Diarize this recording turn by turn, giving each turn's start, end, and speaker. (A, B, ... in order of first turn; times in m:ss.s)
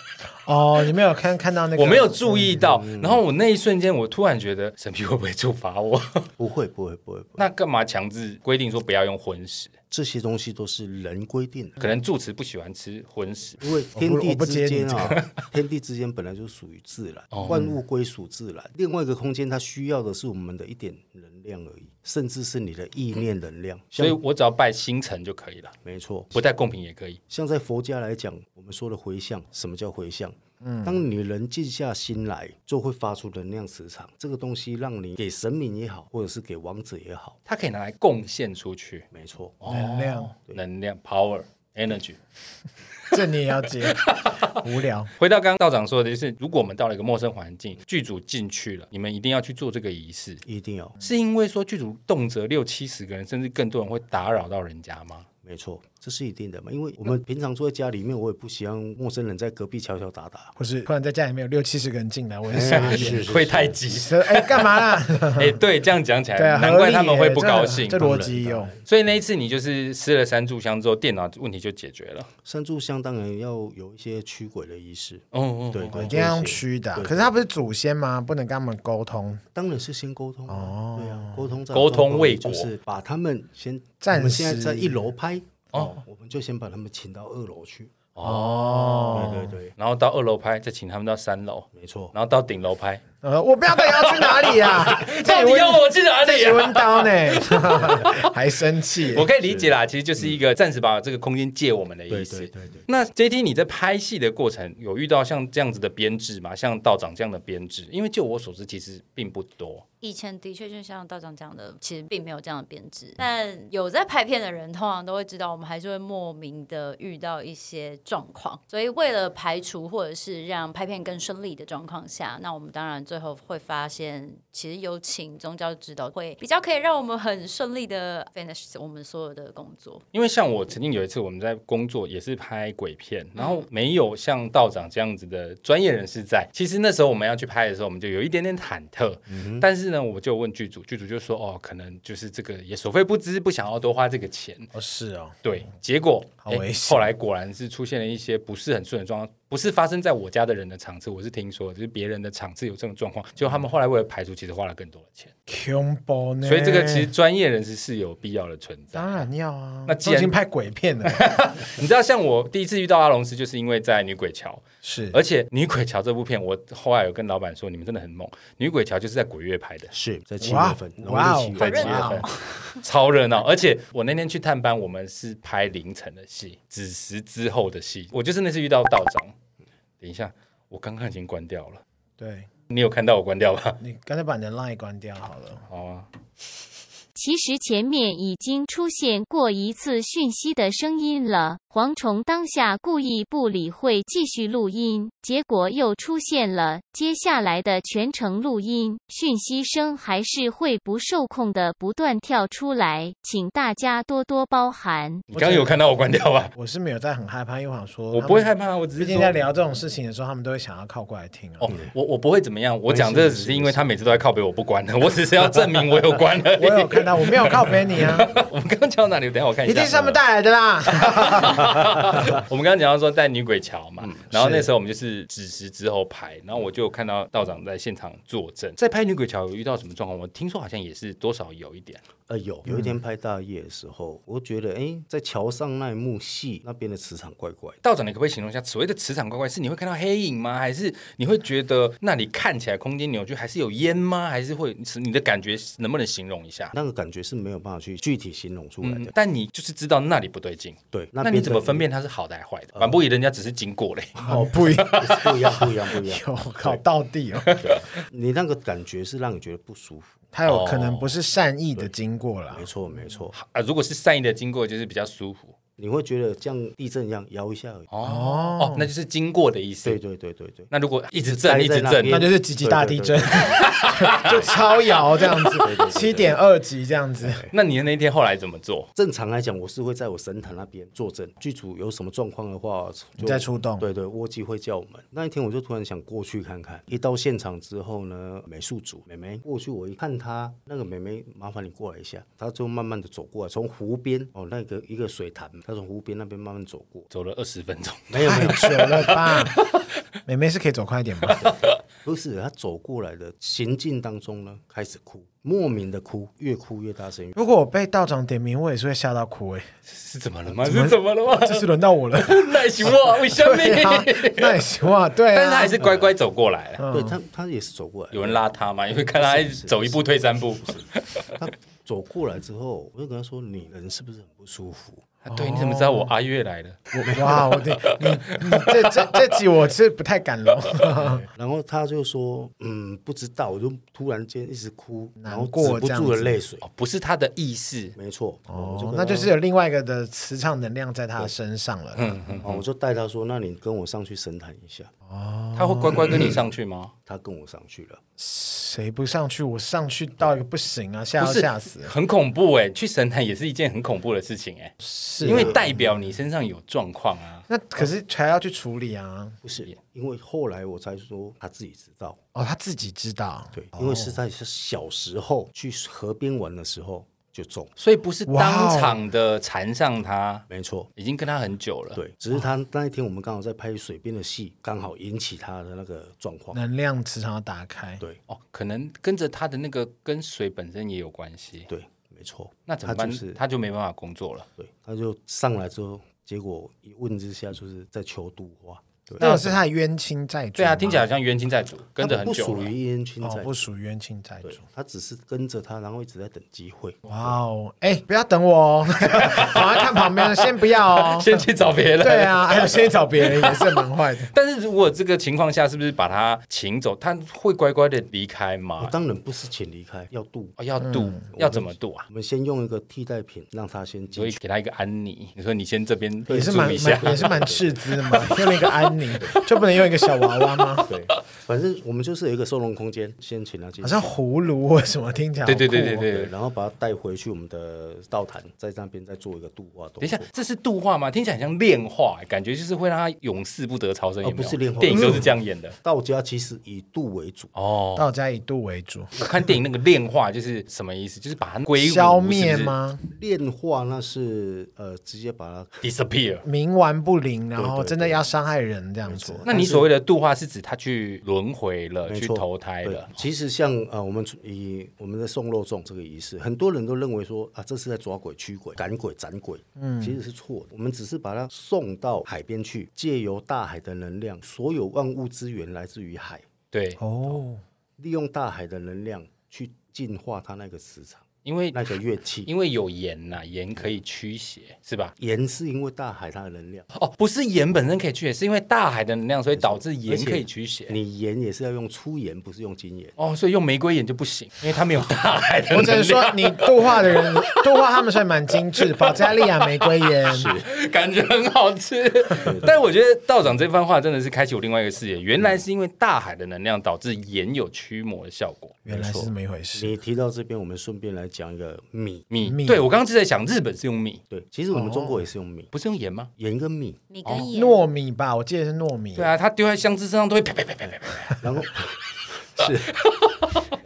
0:00.5-0:02.6 A
0:01.8-0:06.3 B
0:02.6-0:03.2 C
0:06.4-0:07.4 C
0:07.4-0:09.7 B
0:09.9-0:11.9 C
0:11.8-0:13.6 B
0:13.6-0:24.2 C
0:14.0-0:15.2 A
0:17.3-0:17.8 B
0:24.0-0:25.8 B
0:25.8-0:26.4 C
0:26.3-0:27.2 B
0:27.3-0:37.4 C
0:30.6-0:31.0 A
0:37.5-0:39.1 B
0:39.1-0:39.8 C
0:39.6-0:42.2 B
0:39.7-0:40.3 A
0:43.1-0:45.1 A
0:43.8-0:44.6 B
0:45.2-0:50.4 B
0:50.4-0:51.0 C
0:51.0-0:55.3 B
0:55.4-1:00.5 C
1:00.6-1:03.3 A
1:02.5-1:03.8 C
1:02.5-1:08.0 B
1:03.9-1:05.6 A
1:06.4-1:08.7 A
1:07.9-1:09.2 C
1:08.9-1:12.3 B
1:12.4-1:17.3 C
1:15.3-1:16.2 B
1:15.9-1:19.4 A
1:19.5-1:27.9 C
1:20.5-1:21.6 A
1:21.7-1:22.7 B
1:24.0-1:25.1 A
1:28.2-1:33.0 B
1:28.2-1:29.6 A
1:29.1-1:29.7 C
1:31.8-1:32.1 C
1:33.2-1:39.3 A
1:33.8-1:38.2 B
1:39.0-1:49.8 B
1:39.4-1:40.4 C
1:42.1-1:42.9 C
1:50.0-2:10.0 D
2:10.1-2:24.7 B
2:19.3-2:19.7 C
2:24.7-2:25.4 A
2:25.4-2:35.3 B
2:26.5-2:27.1 A
2:35.5-2:37.1 A
2:36.4-2:39.2 B
2:38.9-2:41.2 A
2:39.9-2:40.3 B
2:41.0-2:49.9 B
2:44.8-2:45.2 A
2:49.9-2:52.2 C
2:50.4-2:52.3 A
2:51.6-2:52.3 B
2:51.6-2:52.7 D
2:52.8-2:59.4 B
3:00.0-3:01.8 B
3:02.2-3:02.5 A
3:02.7-3:03.8 B
3:03.8-3:05.7 A
3:05.7-3:06.1 B
3:07.2-3:25.3 E
3:25.3-3:25.7 C
3:25.3-3:26.5 B
3:26.6-3:31.7 A
3:28.1-3:29.4 B
3:31.6-3:40.2 B
3:32.9-3:34.2 C
3:36.6-3:38.3 A
3:39.7-3:41.8 A
3:40.9-3:52.0 B
3:41.8-3:42.4 C
3:44.0-3:44.6 C
3:52.3-3:57.8 C
3:52.7-3:52.9 A
3:57.8-4:06.7 B
4:06.7-4:09.1 C
4:08.8-4:15.7 B
4:10.9-4:11.9 C
4:12.8-4:13.0 C
4:14.2-4:16.8 C
4:14.2-4:17.6 A
4:17.4-4:17.8 B
4:17.6-4:20.2 C
4:20.3-4:22.7 A
4:20.5-4:21.2 B
4:22.5-4:23.3 C
4:23.3-4:25.6 B
4:25.8-4:27.9 C
4:27.9-4:30.0 B
4:28.0-4:28.9 A
4:29.8-4:30.7 C
4:30.7-4:32.3 B
4:31.2-4:33.7 C
4:32.0-4:37.4 A
4:33.4-4:34.5 B
4:35.6-4:36.4 C
4:37.2-4:37.5 C
4:37.5-4:38.9 B
4:39.0-4:57.1 C
4:43.2-4:43.9 A
4:57.1-4:59.9 B
4:58.1-4:59.1 C
4:58.2-4:59.6 A
5:00.3-5:01.5 A
5:01.2-5:01.7 B
5:01.4-5:07.4 C
5:07.4-5:09.7 A
5:09.9-5:14.6 B
5:10.6-5:15.8 A
5:15.3-5:16.9 B
5:15.8-5:16.1 C
5:16.8-5:17.2 A
5:16.9-5:18.4 C
5:18.1-5:21.3 B
5:19.2-5:20.0 C
5:20.6-5:25.0 C
5:25.2-5:29.3 B
5:25.3-5:26.1 A
5:26.9-5:31.2 A
5:27.1-5:27.3 C
5:31.0-5:36.6 C
5:35.2-5:36.4 A
5:36.6-5:38.0 B
5:38.0-5:39.3 C
5:38.5-5:42.4 A
5:42.0-5:42.6 B
5:42.4-5:44.9 C
5:45.1-5:46.3 A
5:45.6-5:46.9 B
5:47.1-5:48.0 C
5:48.2-5:51.9 A
5:51.2-5:57.4 B
5:54.8-5:55.8 A
5:55.2-5:55.6 C
5:57.5-5:59.4 A
5:59.4-6:02.2 C
6:02.3-6:04.2 A
6:03.5-6:07.7 C
6:07.8-6:12.0 B
6:08.3-6:09.0 A
6:10.5-6:10.9 C
6:12.0-6:16.6 C
6:16.5-6:18.0 A
6:18.3-6:21.7 B
6:21.7-6:23.4 C
6:22.7-6:24.5 B
6:24.6-6:29.3 C
6:29.2-6:29.6 B
6:29.2-6:31.1 A
6:30.6-6:32.7 B
6:32.0-6:33.6 C
6:33.2-6:34.6 A
6:34.4-6:37.3 C
6:37.1-6:41.5 A
6:39.0-6:48.9 B
6:42.0-6:44.3 A
6:48.8-6:50.6 C
6:50.6-6:52.1 B
6:50.8-6:51.2 A
6:51.4-6:54.4 C
6:54.2-6:57.5 B
6:56.3-6:58.4 C
6:56.3-7:00.9 A
6:58.1-6:59.5 B
7:00.4-7:00.9 B
7:00.9-7:04.1 C
7:03.8-7:06.1 A
7:05.4-7:06.3 B
7:06.0-7:10.3 C
7:10.0-7:15.8 B
7:14.2-7:17.5 C
7:14.9-7:15.3 A
7:17.6-7:18.1 B
7:18.0-7:19.1 A
7:19.2-7:22.7 B
7:21.8-7:23.0 A
7:23.1-7:25.8 C
7:25.8-7:26.4 B
7:26.4-7:29.5 A
7:27.6-7:28.2 C
7:29.0-7:29.9 C
7:29.5-7:33.1 B
7:32.1-7:46.5 C
7:39.8-7:40.2 A
7:46.7-7:47.0 B
7:47.0-7:47.6 A
7:48.0-7:52.5 C
7:51.4-7:55.1 B
7:55.2-7:56.9 C
7:56.9-8:01.0 B
7:59.6-8:03.1 C
8:03.2-8:07.7 B
8:05.7-8:10.5 A
8:08.8-8:18.8 B
8:10.3-8:10.6 C
8:12.4-8:12.7 C
8:18.9-8:20.0 A
8:18.9-8:22.2 C
8:22.3-8:24.2 B
8:22.5-8:22.8 A
8:24.3-8:25.7 C
8:24.7-8:25.2 A
8:25.7-8:26.3 B
8:26.4-8:27.0 C
8:27.1-8:27.8 D
8:27.5-8:29.3 A
8:29.2-8:31.4 B
8:31.4-8:32.0 C
8:32.5-8:33.0 C
8:32.6-8:33.6 B